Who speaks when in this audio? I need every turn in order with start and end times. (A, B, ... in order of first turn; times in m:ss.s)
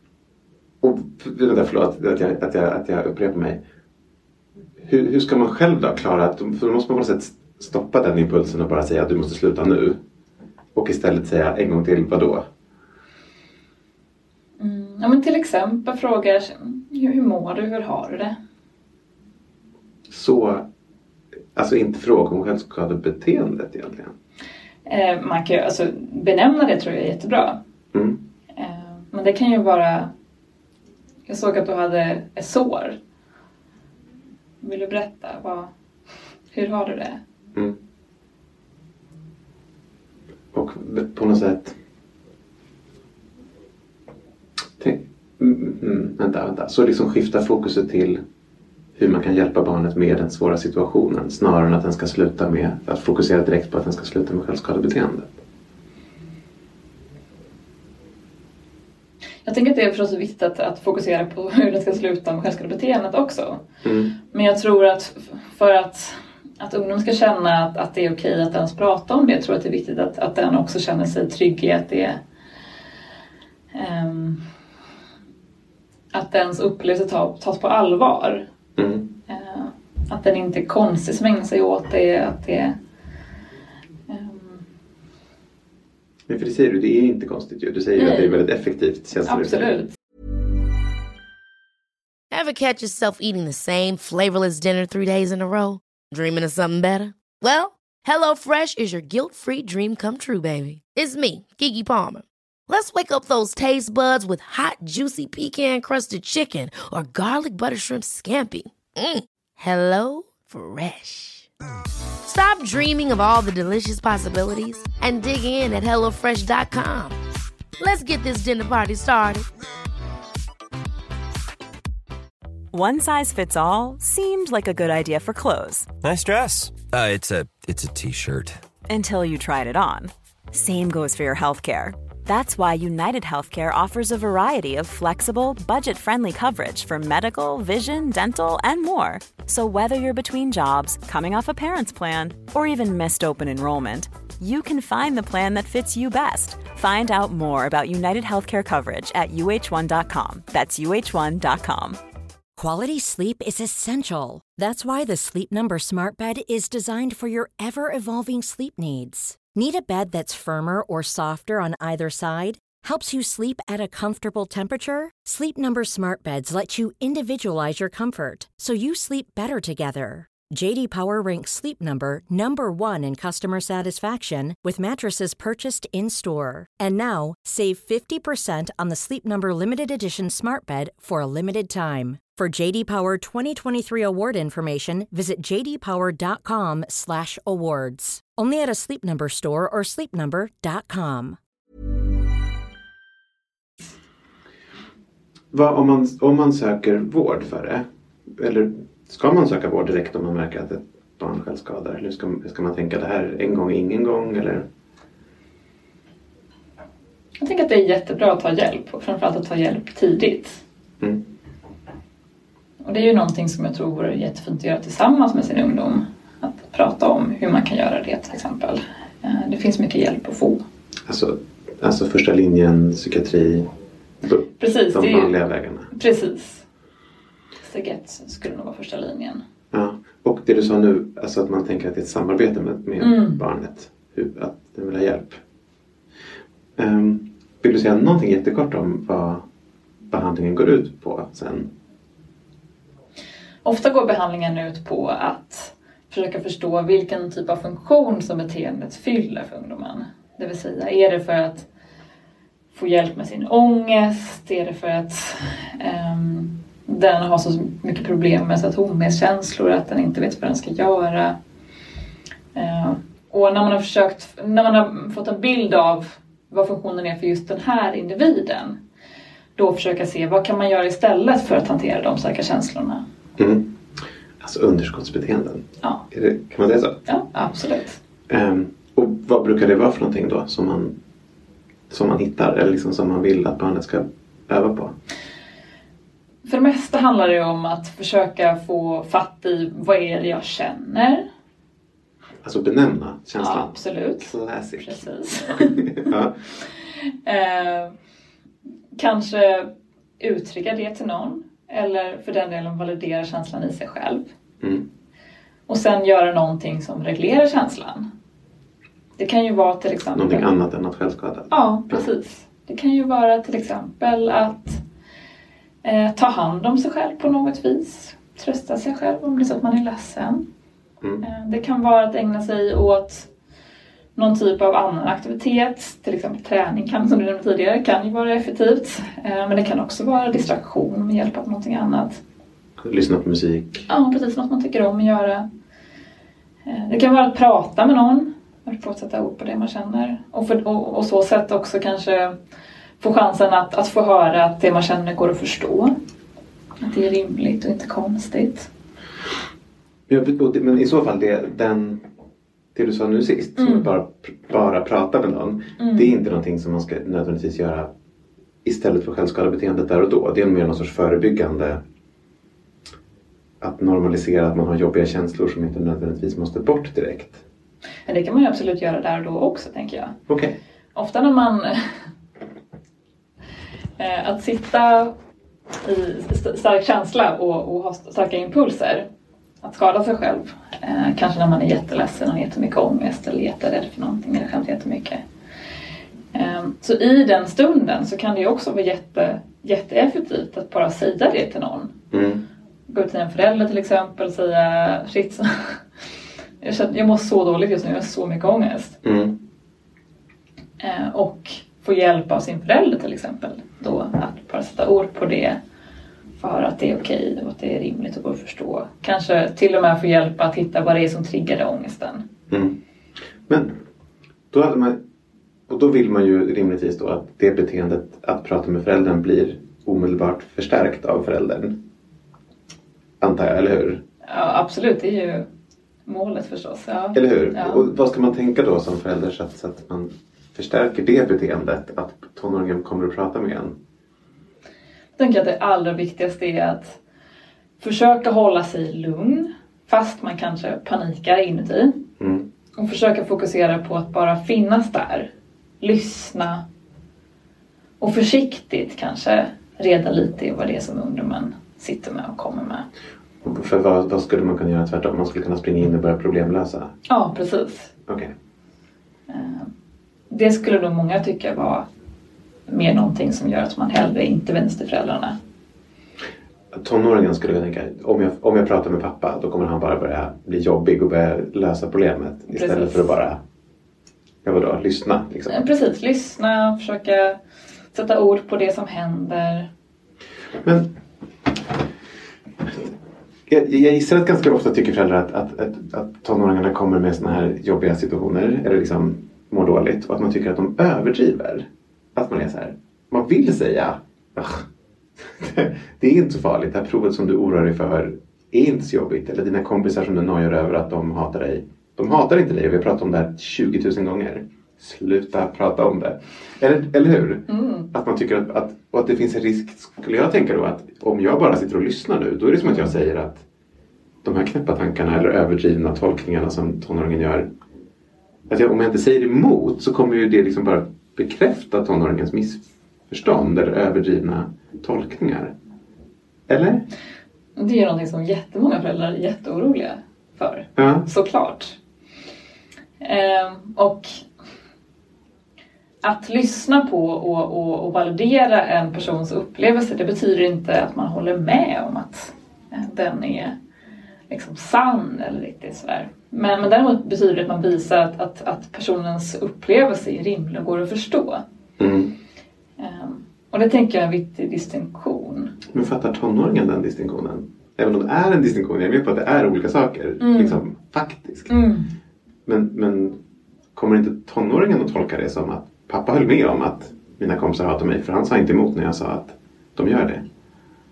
0:00.8-0:03.6 A
0:04.8-0:10.0 A
0:10.7-0:12.4 A
0:14.6-0:18.4 B
0:20.1-0:20.6 A
0:21.5-0:24.1 A
0:24.9-0:27.6 B
0:27.9-0:28.2 A
0:28.6-0:30.1 B
0:31.3-0:33.0 B
0:34.6-0:35.7 B
0:36.5-0:37.2 B
0:40.5-0:41.8 A
0:44.8-0:48.2 A
0:49.0-0:55.4 A
0:59.4-1:03.6 B
1:03.8-1:04.1 A
1:04.3-1:12.2 B
1:13.7-1:14.4 B
1:16.1-1:18.4 B
1:18.8-1:19.1 A
1:19.3-1:22.8 B
1:24.1-1:24.6 B
1:26.3-1:29.8 A
1:28.0-1:28.4 B
1:29.2-1:29.9 B
1:32.3-1:51.5 C
1:52.2-1:57.2 C
1:57.8-1:59.5 C
2:02.7-2:05.9 D
2:06.0-2:08.6 E
2:08.9-2:32.0 D
2:32.6-3:11.4 F
3:15.5-3:17.8 A
3:18.4-3:24.7 A
3:27.4-3:30.6 B
3:32.8-3:40.6 B
3:41.1-3:43.7 A
3:44.2-3:45.9 A
3:44.6-3:45.3 B
3:45.9-3:46.6 B
3:47.6-3:49.4 B
3:49.7-3:55.4 A
3:53.0-3:53.4 B
3:56.8-3:59.4 A
4:00.1-4:01.7 A
4:03.6-4:11.7 B
4:12.7-4:21.4 B
4:22.6-4:28.8 B
4:29.6-4:33.0 B
4:33.4-4:33.7 A
4:34.4-4:37.0 A
4:37.1-4:38.0 B
4:38.3-4:41.0 A
4:41.9-4:45.0 A
4:46.5-4:51.3 B
4:52.4-4:55.0 A
4:53.4-4:56.1 B
4:55.5-4:56.4 A
4:56.8-4:57.9 B
4:59.0-5:04.3 B
5:04.6-5:04.9 A
5:05.7-5:08.1 B
5:09.2-5:10.5 B
5:10.2-5:12.1 A
5:11.5-5:14.8 B
5:15.8-5:20.4 B
5:21.2-5:23.3 B
5:24.2-5:32.2 B
5:32.8-5:33.9 A
5:33.9-5:35.4 B
5:36.7-5:42.4 B
5:43.0-5:45.9 B
5:46.8-5:48.7 B
5:50.1-5:52.0 A
5:52.7-5:57.9 A
5:53.6-5:53.9 B
5:55.8-5:56.1 B
5:58.6-6:01.8 A
6:03.6-6:07.4 A
6:08.1-6:10.2 B
6:10.3-6:10.6 A
6:11.0-6:11.8 B
6:14.0-6:15.1 B
6:15.8-6:19.1 B
6:19.6-6:25.2 B
6:26.3-6:31.9 B
6:32.1-6:32.4 A
6:32.9-6:35.8 B
6:36.6-6:39.0 B
6:39.0-6:39.4 A
6:40.8-6:45.6 B
6:46.4-6:52.2 B
6:52.5-6:52.8 A
6:53.5-6:53.8 A
6:54.5-6:55.0 A
6:55.7-7:01.8 A
7:03.2-7:04.0 A
7:04.3-7:05.5 B
7:06.1-7:07.9 B
7:07.1-7:13.8 A
7:15.2-7:17.0 B
7:17.8-7:22.0 B
7:22.2-7:22.5 A
7:22.8-7:25.3 B
7:25.8-7:26.6 B
7:28.0-7:32.8 B
7:33.4-7:36.9 A
7:37.1-7:37.9 B
7:38.1-7:38.3 A
7:39.3-7:39.7 B
7:40.3-7:41.8 B
7:42.7-7:45.4 B
7:46.7-7:53.4 A
7:52.5-7:53.1 B
7:54.4-7:55.6 A
7:55.5-7:57.4 B
7:57.9-7:59.7 B
8:00.6-8:00.9 A
8:02.6-8:02.9 A
8:03.5-8:14.7 A
8:15.2-8:33.4 A
8:27.5-8:27.9 B
8:32.6-8:32.9 B
8:34.2-8:37.5 A
8:38.5-8:45.5 A
8:46.5-8:46.9 A
8:47.6-8:51.8 B
8:50.8-8:51.1 A
8:53.0-8:54.2 B
8:56.0-9:03.6 B
9:04.3-9:11.4 B
9:11.8-9:12.1 A
9:12.8-9:15.5 B
9:15.7-9:21.5 A
9:20.2-9:20.6 B
9:21.5-9:21.9 B
9:22.5-9:23.2 A
9:23.8-9:30.2 A